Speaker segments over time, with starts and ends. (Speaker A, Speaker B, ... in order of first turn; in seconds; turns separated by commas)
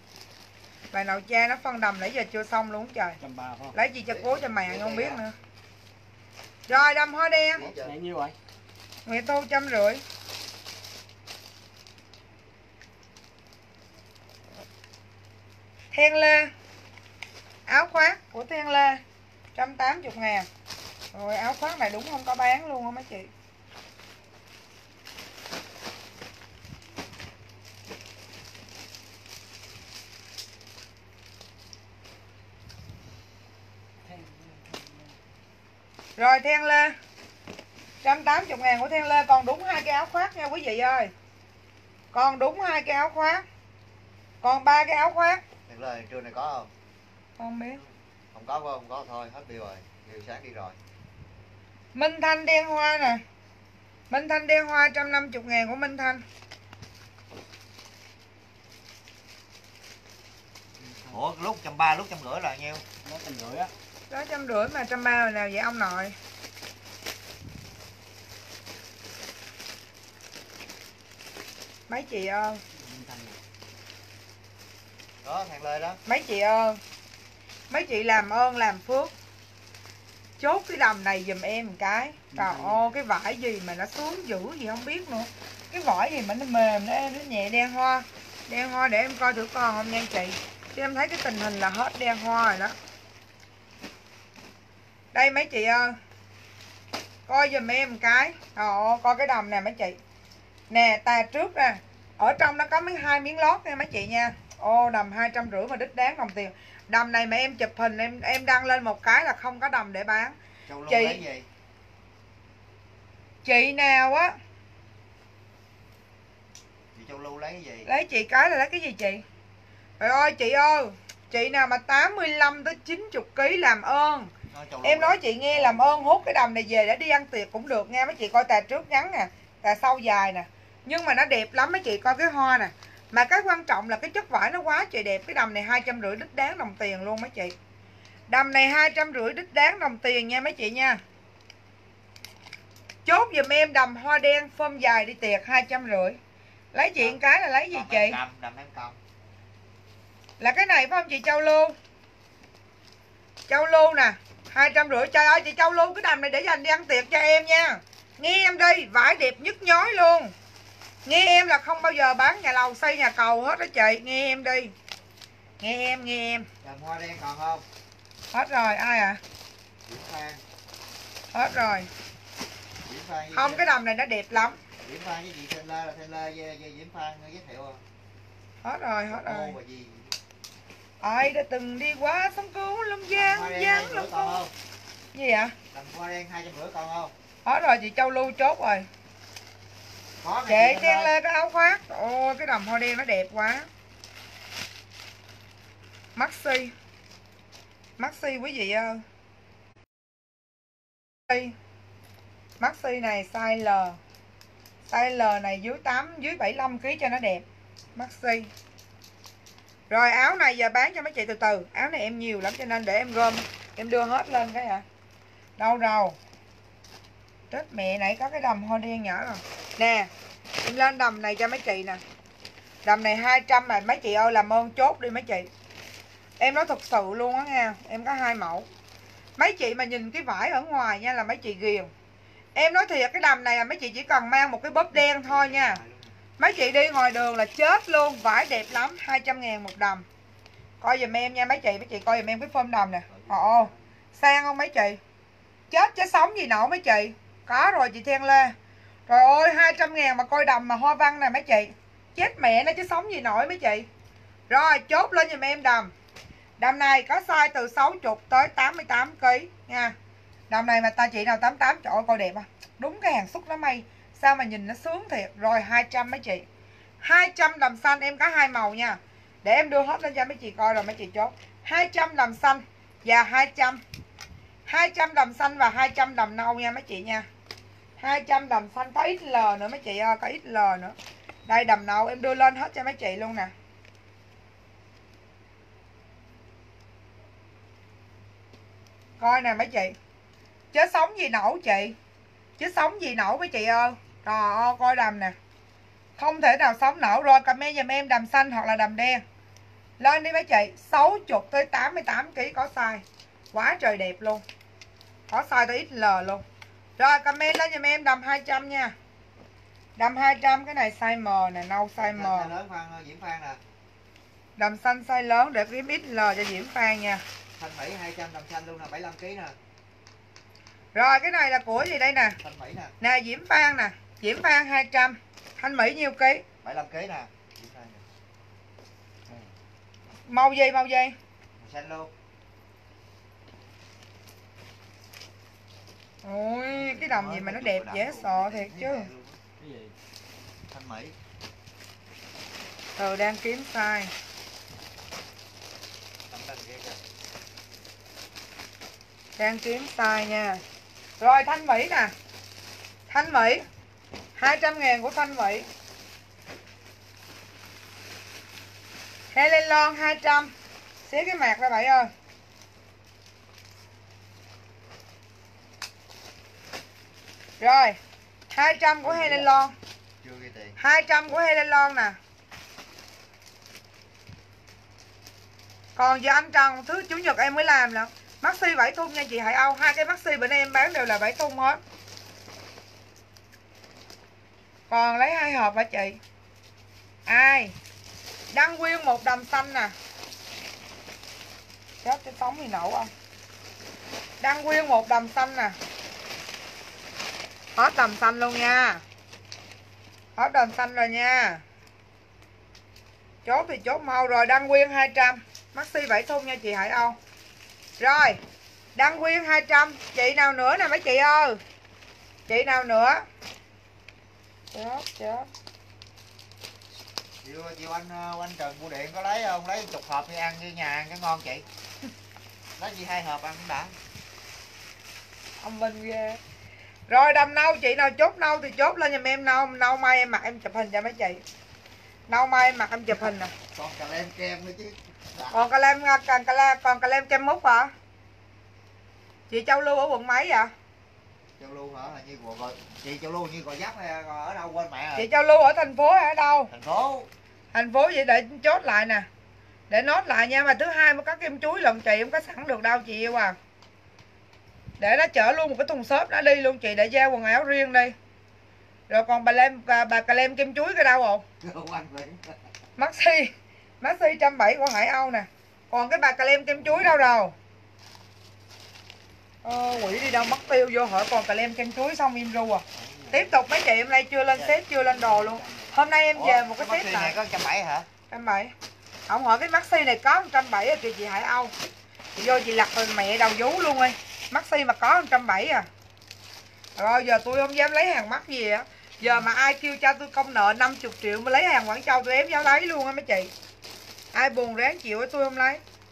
Speaker A: 0.9-3.2, Speaker B: 3.2-3.8, Speaker A: 3.7-5.3, Speaker C: 4.1-5.2, Speaker A: 6.7-7.7, Speaker C: 7.5-8.0, Speaker B: 7.8-8.3, Speaker A: 9.1-10.0, Speaker A: 15.9-16.5, Speaker A: 17.7-19.0, Speaker A: 19.6-20.5, Speaker A: 21.1-23.3, Speaker B: 34.0-35.2, Speaker A: 36.2-37.0, Speaker A: 38.0-41.1, Speaker A: 42.1-43.4, Speaker A: 44.4-45.4, Speaker C: 45.7-46.7, Speaker A: 47.4-47.8, Speaker C: 48.3-50.8, Speaker A: 51.9-53.2, Speaker A: 54.1-56.2, Speaker B: 60.8-61.2, Speaker C: 61.1-62.8, Speaker B: 63.0-63.7, Speaker A: 64.1-66.2, Speaker A: 71.9-72.6, Speaker B: 72.7-73.4, Speaker C: 75.2-76.0, Speaker A: 76.1-76.8, Speaker A: 77.7-79.1, Speaker A: 80.4-92.8, Speaker B: 82.3-82.8, Speaker A: 95.1-96.0, Speaker A: 97.3-100.0, Speaker A: 100.7-111.2, Speaker C: 110.7-111.5, Speaker A: 113.4-114.4, Speaker C: 117.0-117.9, Speaker A: 117.8-119.2, Speaker A: 120.0-124.3, Speaker C: 124.5-126.2, Speaker A: 124.8-137.6, Speaker A: 138.3-141.0, Speaker A: 143.1-146.2, Speaker A: 146.7-148.2, Speaker C: 147.0-149.0, Speaker A: 150.4-151.8, Speaker A: 153.5-160.3, Speaker A: 161.1-164.7, Speaker A: 165.6-166.5, Speaker C: 166.6-167.6, Speaker A: 168.3-169.2, Speaker C: 169.9-170.4, Speaker A: 171.3-171.9, Speaker C: 172.9-173.7, Speaker A: 173.3-174.6, Speaker C: 174.8-177.8, Speaker A: 178.6-179.6, Speaker C: 179.1-180.2, Speaker A: 181.0-184.4, Speaker C: 183.1-184.5, Speaker A: 185.1-185.6, Speaker C: 185.7-187.1, Speaker A: 187.4-188.9, Speaker C: 190.2-191.1, Speaker A: 190.5-193.7, Speaker A: 196.2-196.7, Speaker A: 198.0-199.0, Speaker A: 201.3-201.6, Speaker A: 202.6-204.0, Speaker A: 204.9-207.4, Speaker A: 207.9-208.5, Speaker A: 209.9-214.8, Speaker A: 215.6-216.2, Speaker A: 217.5-220.1, Speaker A: 220.6-222.0, Speaker A: 222.8-225.5, Speaker A: 226.4-228.7, Speaker A: 229.4-231.9, Speaker A: 232.6-235.8, Speaker C: 234.9-236.2, Speaker A: 236.4-240.1, Speaker A: 240.8-245.0, Speaker C: 243.1-243.8, Speaker A: 245.7-248.6, Speaker A: 249.1-253.9, Speaker A: 254.5-255.9, Speaker A: 256.6-259.9, Speaker A: 260.5-266.4, Speaker A: 267.0-273.8, Speaker A: 274.7-277.3, Speaker A: 278.0-280.9, Speaker A: 281.5-283.5, Speaker A: 289.2-289.9, Speaker A: 290.7-291.9, Speaker A: 292.6-295.4, Speaker A: 296.2-299.2, Speaker A: 300.0-304.4, Speaker A: 305.3-306.4, Speaker A: 307.0-308.9, Speaker A: 310.0-312.5, Speaker C: 312.0-313.6, Speaker A: 314.6-317.2, Speaker C: 317.6-319.6, Speaker A: 320.9-322.4, Speaker C: 322.4-322.9, Speaker A: 323.0-326.4, Speaker C: 326.6-328.1, Speaker A: 330.3-331.1, Speaker C: 331.6-332.1, Speaker A: 336.2-339.1, Speaker C: 336.7-339.4, Speaker B: 339.6-339.9, Speaker C: 340.7-341.2, Speaker A: 343.0-344.1, Speaker C: 346.3-347.0, Speaker A: 349.4-350.6, Speaker A: 351.2-352.1, Speaker A: 353.1-353.6, Speaker A: 354.4-355.7, Speaker A: 359.3-360.5, Speaker A: 361.1-362.1, Speaker A: 367.6-368.0, Speaker A: 368.5-369.7, Speaker C: 369.0-369.6, Speaker C: 370.2-370.8, Speaker A: 370.8-372.2, Speaker A: 376.0-381.8, Speaker A: 384.9-386.2, Speaker A: 387.3-387.7, Speaker A: 388.5-389.9, Speaker A: 392.0-393.1, Speaker A: 394.4-395.8, Speaker A: 397.8-399.0, Speaker A: 400.4-401.6, Speaker A: 403.4-407.2, Speaker A: 408.0-408.4, Speaker A: 409.0-411.6, Speaker A: 412.5-413.2, Speaker A: 414.7-415.5, Speaker C: 417.4-421.6, Speaker C: 422.8-423.9, Speaker A: 425.6-426.4, Speaker A: 427.1-431.4, Speaker A: 432.3-433.5, Speaker C: 433.7-435.7, Speaker A: 435.5-437.9, Speaker A: 439.5-440.7, Speaker C: 441.6-445.3, Speaker A: 445.1-446.7, Speaker C: 446.7-447.3, Speaker A: 447.7-449.3, Speaker A: 449.9-453.6, Speaker A: 455.0-458.1, Speaker A: 459.1-461.4, Speaker C: 461.6-462.5, Speaker A: 463.0-467.5, Speaker A: 469.6-477.4, Speaker C: 473.0-473.5, Speaker C: 474.5-478.1, Speaker B: 475.2-475.6, Speaker A: 478.3-478.7, Speaker A: 479.3-481.7, Speaker A: 482.4-485.9, Speaker A: 487.0-493.5, Speaker A: 494.3-495.8